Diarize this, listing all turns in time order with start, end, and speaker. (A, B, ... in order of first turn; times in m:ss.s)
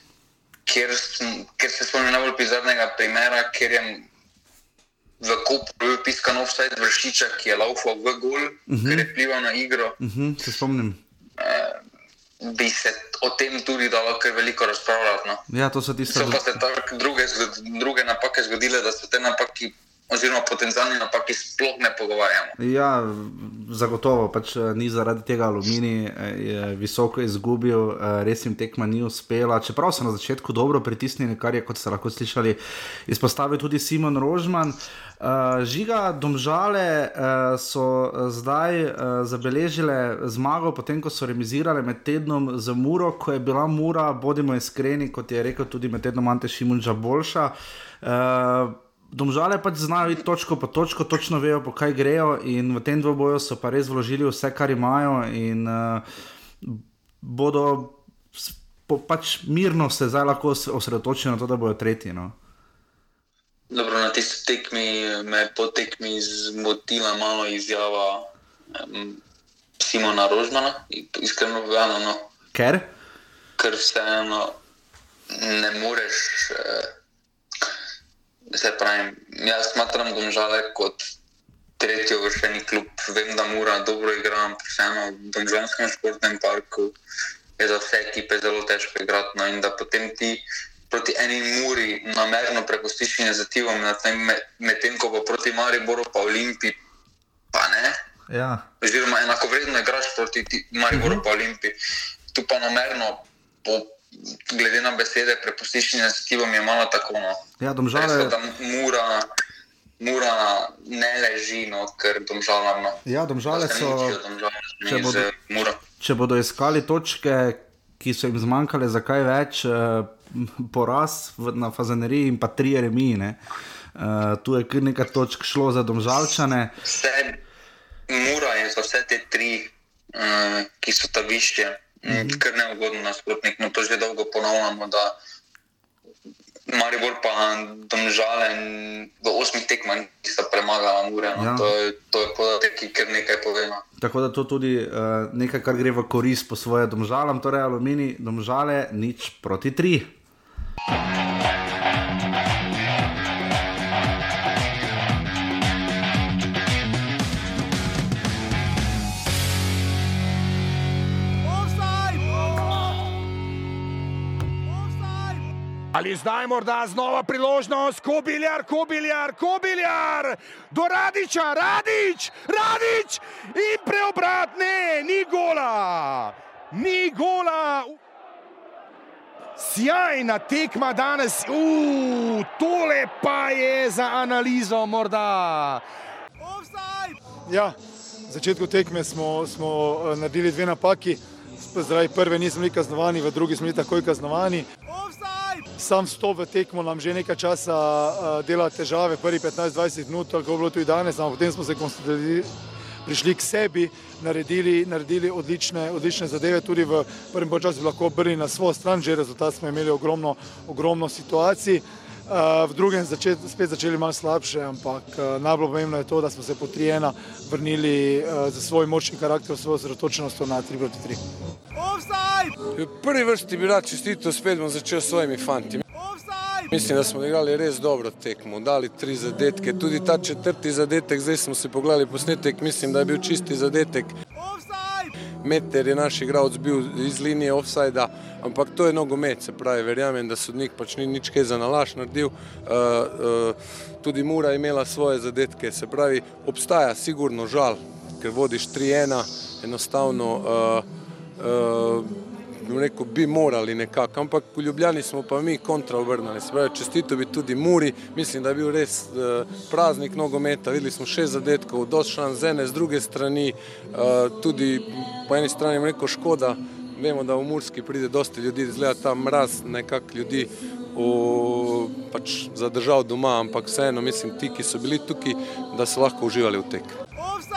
0:00.7-0:04.1 A
0:05.2-0:10.0 A
0:08.7-0:09.1 B
0:10.0-0:11.0 B
0:11.4-0:11.8 A
0:12.4-0:15.4 A
0:15.5-0:16.4 B
0:16.1-0:22.6 A
0:22.6-0:56.0 B
0:56.6-1:02.3 B
1:03.7-1:09.2 A
1:09.8-1:12.3 A
1:12.5-1:12.9 B
1:13.6-1:14.6 A
1:15.3-1:16.9 A
1:18.5-1:21.1 A
1:21.8-1:27.0 A
1:27.6-1:36.8 A
1:37.5-1:38.0 A
1:38.3-1:38.7 B
1:38.8-1:41.8 A
1:40.9-1:41.2 B
1:42.3-1:47.4 A
1:47.6-1:48.4 B
1:47.9-1:49.3 A
1:50.0-1:55.8 A
1:53.0-1:54.2 B
1:54.9-1:55.3 B
1:56.0-2:03.4 B
2:04.0-2:06.7 B
2:06.8-2:07.4 A
2:08.1-2:15.2 A
2:12.1-2:12.4 B
2:16.7-2:23.8 A
2:21.4-2:21.7 B
2:24.0-2:30.1 B
2:46.0-2:58.0 C
2:59.6-3:05.8 C
3:07.5-3:07.8 D
3:08.3-3:14.7 D
3:15.8-3:22.5 D
3:23.0-3:41.2 D
3:42.8-3:45.8 E
3:46.7-3:54.2 E
3:55.4-4:10.9 E
4:11.4-4:37.0 E